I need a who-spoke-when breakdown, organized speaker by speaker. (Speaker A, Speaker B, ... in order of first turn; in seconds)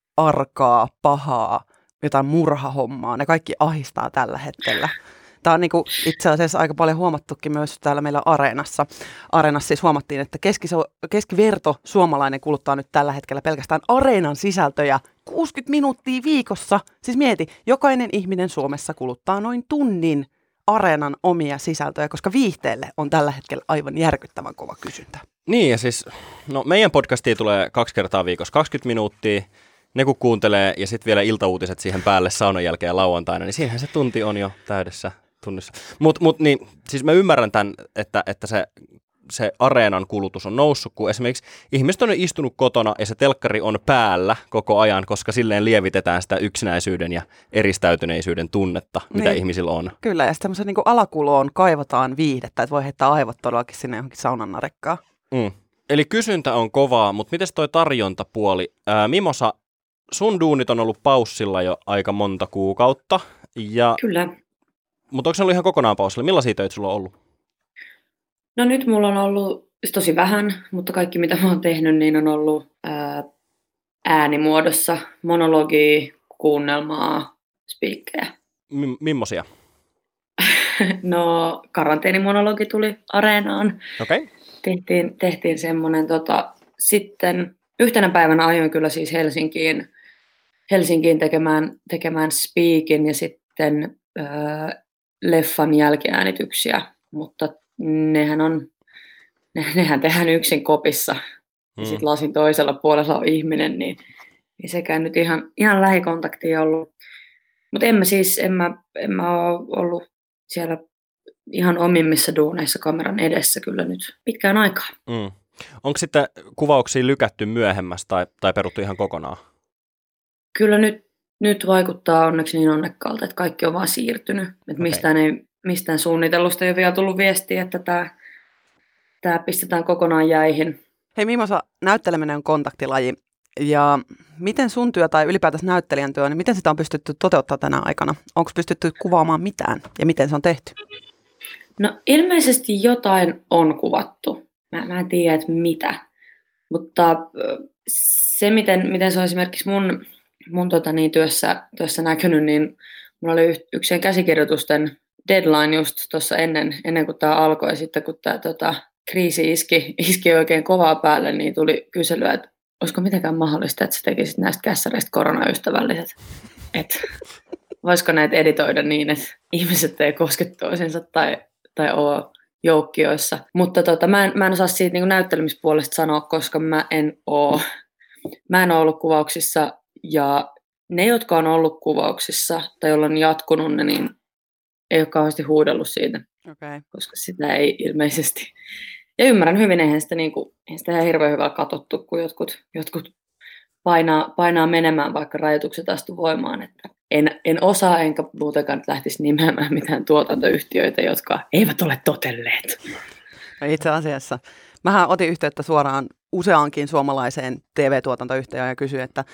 Speaker A: 0.2-25.2, 49.1-49.4, 50.0-55.0, 131.2-140.8, 186.5-186.8, 203.6-209.2
Speaker B: 25.4-38.7, 39.2-49.9, 55.3-59.5, 60.1-64.0, 65.1-67.1, 78.7-79.5, 84.0-84.3, 101.8-102.0, 115.1-119.4
Speaker C: 64.0-64.3, 68.6-73.2, 74.1-78.3, 80.4-83.8, 84.6-89.9, 90.7-98.7, 99.5-101.2, 101.8-104.0, 104.6-106.9, 107.7-110.8, 111.5-114.9, 120.5-128.1, 129.2-130.8, 141.8-146.0, 146.7-166.1, 166.7-167.1, 167.8-177.6, 178.5-184.1, 184.9-186.2, 186.9-188.5, 189.2-193.1, 193.8-202.8